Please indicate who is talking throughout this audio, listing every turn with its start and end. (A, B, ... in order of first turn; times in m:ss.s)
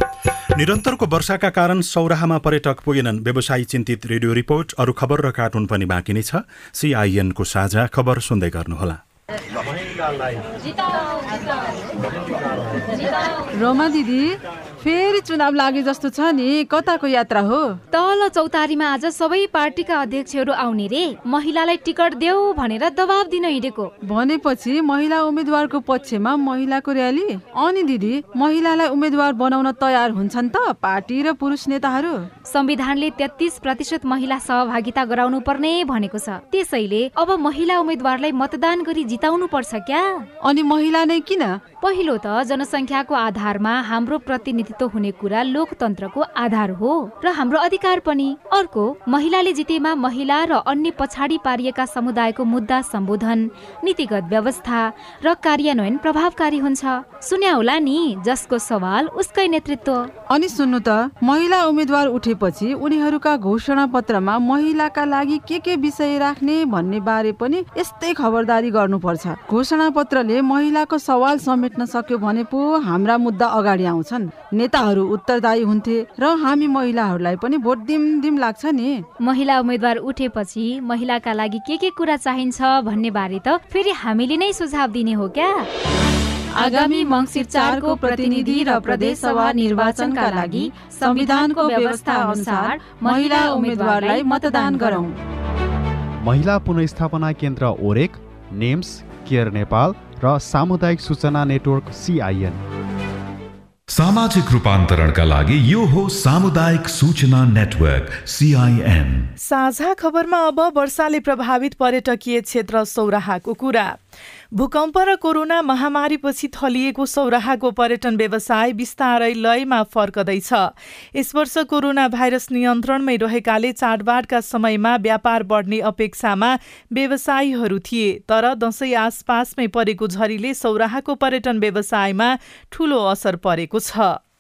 0:00.6-0:09.0 A
0:09.9-0:10.4 A
0:13.6-0:17.8 B
0:17.9-0:23.9 C
0:24.1-0:32.3 B
0:32.5-0:40.3 C
0:40.4-0:41.6 B
0:41.8-1:00.1 C
1:00.3-1:19.0 B
1:19.2-1:25.7 C
1:26.6-1:35.2 B
1:26.6-1:35.0 C
1:36.2-1:42.6 D
1:43.9-1:49.3 E
1:49.4-1:54.0 F
1:54.6-2:14.2 F